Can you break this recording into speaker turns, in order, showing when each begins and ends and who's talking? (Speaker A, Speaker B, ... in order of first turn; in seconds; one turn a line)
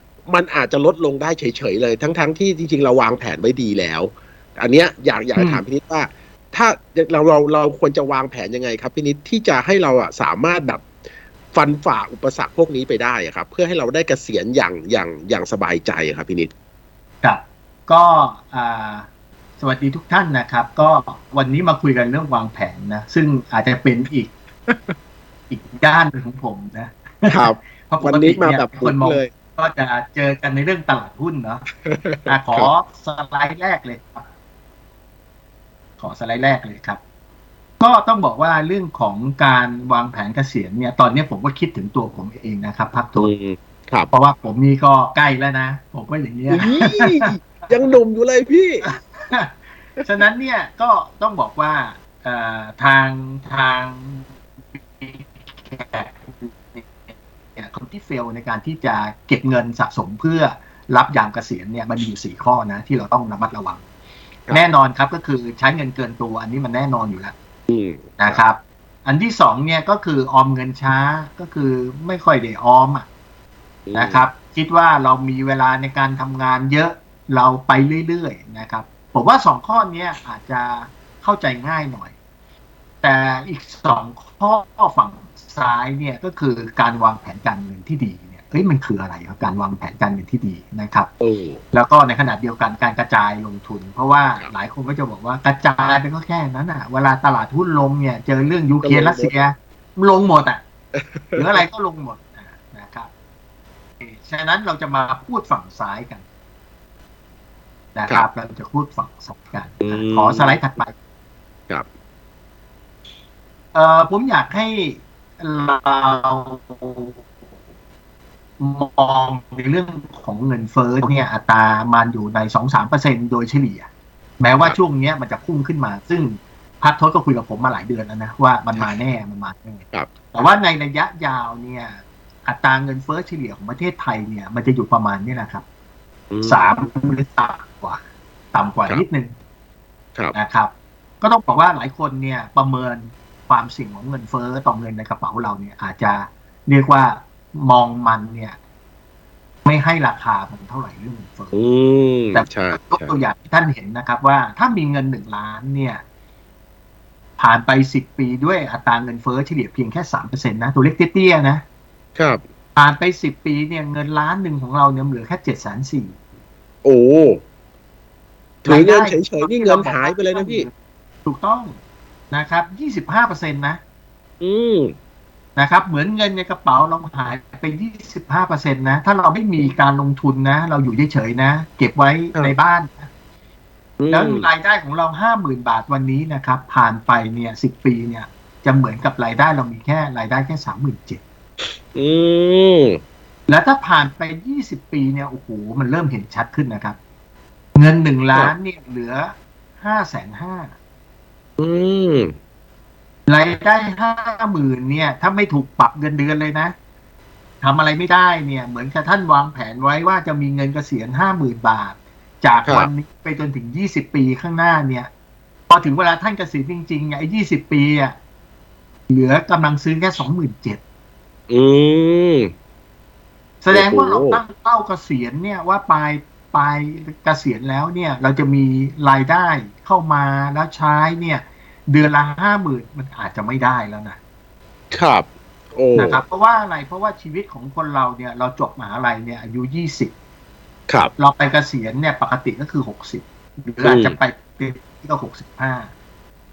Speaker A: 0.3-10.9
Speaker B: 5.4-5.6
Speaker A: 11.5-16.5
Speaker B: 17.2-19.1
Speaker B: 19.6-24.3
Speaker A: 24.7-24.9
Speaker B: 25.5-31.6
Speaker A: 27.3-29.3
Speaker A: 31.9-32.7
Speaker B: 32.3-34.3
Speaker B: 36.0-37.0
Speaker B: 37.8-43.3
Speaker A: 43.2-44.1
Speaker B: 44.1-48.0
Speaker A: 46.5-48.9
Speaker B: 48.8-63.8
Speaker B: 64.5-67.3
Speaker A: 67.7-68.4
Speaker B: 68.2-73.1
Speaker A: 73.9-74.2
Speaker B: 73.9-82.2
Speaker B: 83.0-91.1
Speaker A: 91.2-91.6
Speaker B: 91.7-100.6
Speaker A: 98.8-99.3
Speaker A: 101.0-101.7
Speaker B: 101.3-103.1
Speaker B: 104.0-106.2
Speaker B: 108.0-110.9
Speaker A: 109.8-110.6
Speaker B: 113.7-117.2
Speaker B: 118.6-123.9
Speaker B: 124.4-135.6
Speaker A: 136.3-136.7
Speaker B: 136.4-138.0
Speaker B: 138.5-139.3
Speaker B: 140.3-148.6
Speaker B: 149.7-151.6
Speaker A: 151.5-153.2
Speaker B: 152.3-156.0
Speaker B: 157.4-161.6
Speaker A: 162.2-162.4
Speaker B: 162.8-166.2
Speaker A: 166.8-167.4
Speaker B: 168.6-170.7
Speaker A: 168.7-170.7
Speaker B: 171.2-171.8
Speaker B: 172.3-173.8
Speaker A: 174.4-174.9
Speaker B: 175.6-183.1
Speaker A: 184.0-184.5
Speaker B: 184.1-191.2
Speaker A: 191.9-193.0
Speaker B: 193.5-197.0
Speaker B: 197.8-200.7
Speaker A: 201.6-202.3
Speaker B: 203.3-206.7
Speaker B: 207.6-215.1
Speaker A: 212.7-212.9
Speaker B: 215.7-218.2
Speaker B: 219.1-220.8
Speaker A: 221.5-222.5
Speaker B: 223.6-234.2
Speaker A: 223.7-224.4
Speaker A: 234.9-236.2
Speaker B: 235.9-240.1
Speaker B: 241.2-245.9
Speaker A: 243.8-244.2